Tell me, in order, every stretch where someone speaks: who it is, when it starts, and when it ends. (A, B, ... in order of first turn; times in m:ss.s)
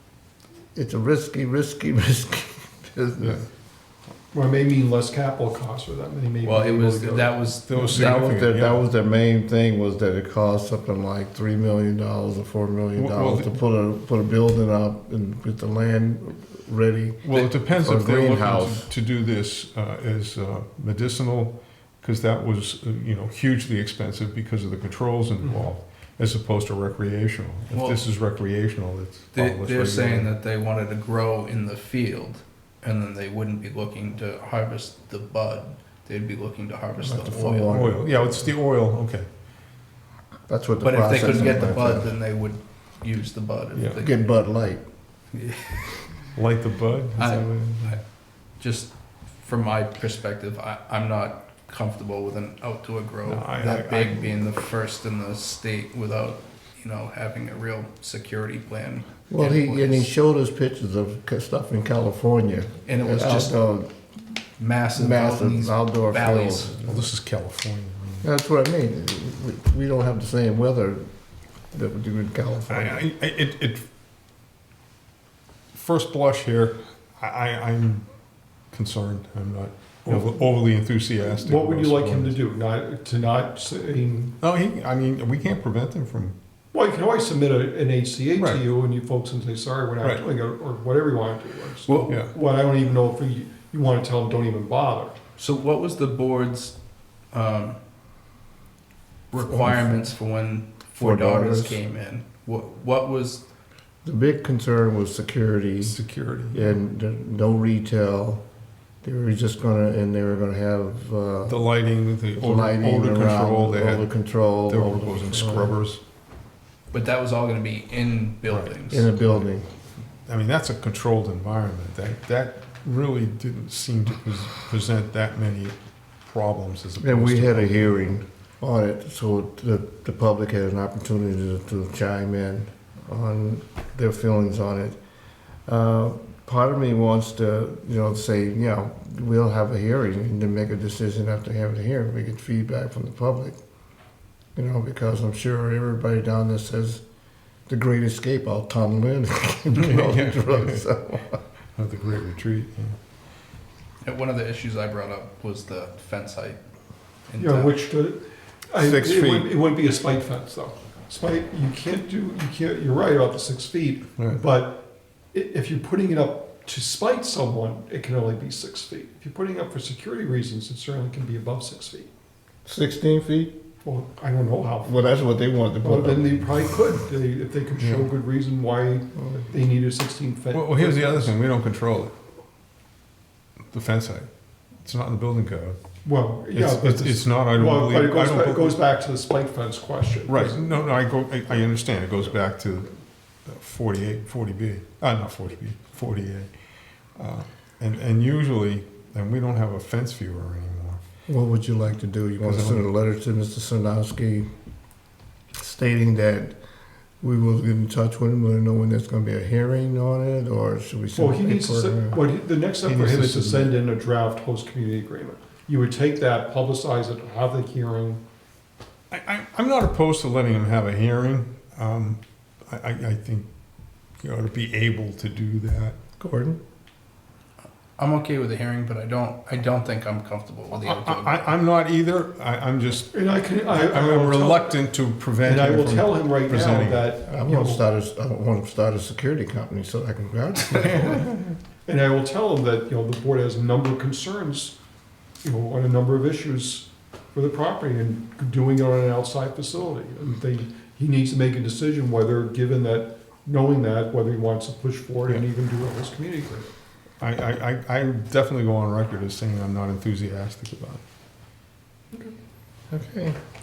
0:00.7-0:03.4 A
0:03.2-0:03.4 B
0:04.3-0:07.4 C
0:06.4-0:08.3 D
0:07.6-0:08.9 B
0:07.8-0:18.9 A
0:12.9-0:13.5 B
0:17.2-0:30.3 B
0:27.7-0:28.0 D
0:29.3-0:37.7 D
0:37.0-0:38.5 A
0:37.7-0:39.3 B
0:40.5-0:42.1 A
0:40.8-0:44.1 D
0:43.7-0:44.0 B
0:43.9-0:44.8 A
0:45.3-0:46.1 D
0:46.4-0:48.0 B
0:47.2-0:48.0 D
0:48.6-1:00.1 D
0:53.2-0:54.5 B
0:59.3-1:03.9 A
1:02.8-1:03.6 D
1:04.6-1:06.7 D
1:05.0-1:07.1 A
1:06.8-1:08.3 B
1:08.2-1:11.0 A
1:11.7-1:13.0 A
1:12.7-1:13.8 B
1:15.7-1:18.0 B
1:18.7-1:22.4 B
1:20.0-1:20.4 C
1:21.2-1:24.3 C
1:24.4-1:26.4 B
1:26.7-1:35.2 C
1:28.4-1:28.6 B
1:31.8-1:32.1 D
1:35.4-1:36.7 D
1:37.3-1:37.8 D
1:39.3-1:43.4 D
1:39.4-1:40.1 A
1:41.0-1:41.8 A
1:44.0-1:46.0 A
1:45.8-1:46.7 B
1:46.5-1:48.4 A
1:49.0-1:51.6 A
1:51.4-1:54.1 B
1:52.4-1:55.7 A
1:54.7-1:56.0 B
1:56.9-1:59.1 D
1:58.5-1:59.2 B
1:58.9-1:59.7 A
2:00.2-2:08.2 B
2:07.0-2:15.0 A
2:15.7-2:23.6 A
2:24.6-2:27.0 A
2:27.7-2:31.4 A
2:29.7-2:30.8 B
2:31.8-2:33.0 B
2:34.0-2:36.6 D
2:37.3-2:37.8 D
2:37.4-2:52.1 C
2:38.8-2:39.5 B
2:52.6-2:53.5 A
2:53.8-2:55.0 C
2:54.8-2:56.5 A
2:55.8-3:01.3 C
2:59.2-2:59.4 A
3:00.5-3:02.1 B
3:03.7-3:04.3 B
3:04.8-3:05.8 B
3:06.0-3:10.6 C
3:06.5-3:08.8 B
3:10.3-3:12.9 B
3:13.4-3:16.5 B
3:17.2-3:21.0 B
3:21.3-3:24.5 A
3:22.4-3:22.9 B
3:25.6-3:26.5 A
3:27.2-3:32.2 A
3:31.1-3:38.2 C
3:32.8-3:33.7 B
3:39.1-3:43.5 B
3:44.2-3:46.0 B
3:46.2-3:46.6 A
3:48.0-3:51.5 D
3:50.7-3:53.1 B
3:53.1-3:54.8 C
3:53.7-3:57.1 B
3:55.4-3:57.8 C
3:57.2-4:01.2 A
4:00.7-4:01.6 B
4:01.8-4:04.8 C
4:05.4-4:16.7 C
4:17.2-4:21.0 B
4:22.9-4:23.4 A